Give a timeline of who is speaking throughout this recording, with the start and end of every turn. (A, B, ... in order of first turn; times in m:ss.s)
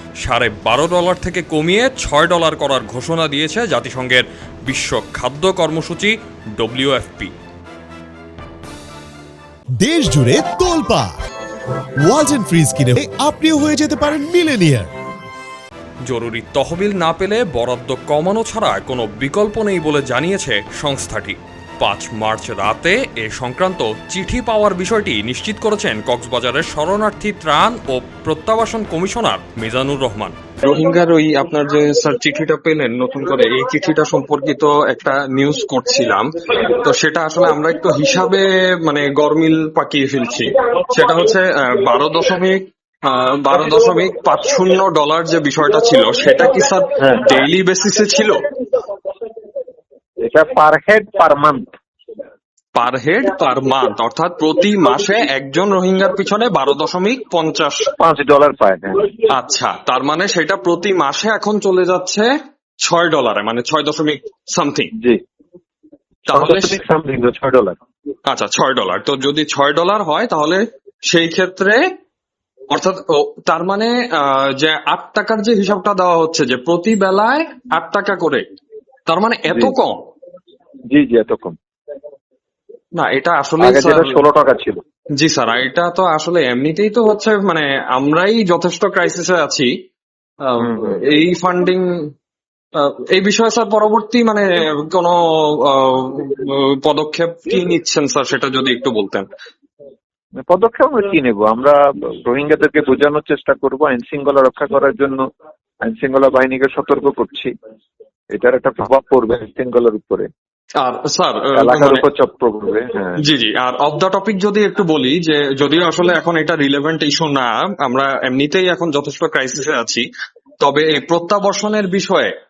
0:00.2-0:07.3 A
0:09.8-0:11.2 B
0:12.0-0:14.9 B
0:16.1-0:30.4 A
0:30.6-0:48.4 C
0:47.0-0:47.2 D
0:50.2-0:51.6 D
0:52.8-0:57.9 C
0:58.0-0:59.1 D
0:59.3-1:02.3 C
1:02.8-1:04.9 C
1:06.3-1:07.8 D
1:06.3-1:06.8 C
1:08.3-1:11.8 C
1:12.7-1:18.4 C
1:19.1-1:20.0 C
1:20.9-1:21.6 D
1:23.0-1:24.2 C
1:23.6-1:24.8 D
1:25.2-1:29.7 C
1:30.4-1:31.8 C
1:32.8-1:39.3 C
1:40.4-1:45.2 D
1:45.8-1:47.5 D
1:48.3-1:50.3 D
1:50.8-1:52.0 C
1:51.6-1:53.2 D
1:53.2-2:00.1 C
2:00.6-2:02.3 C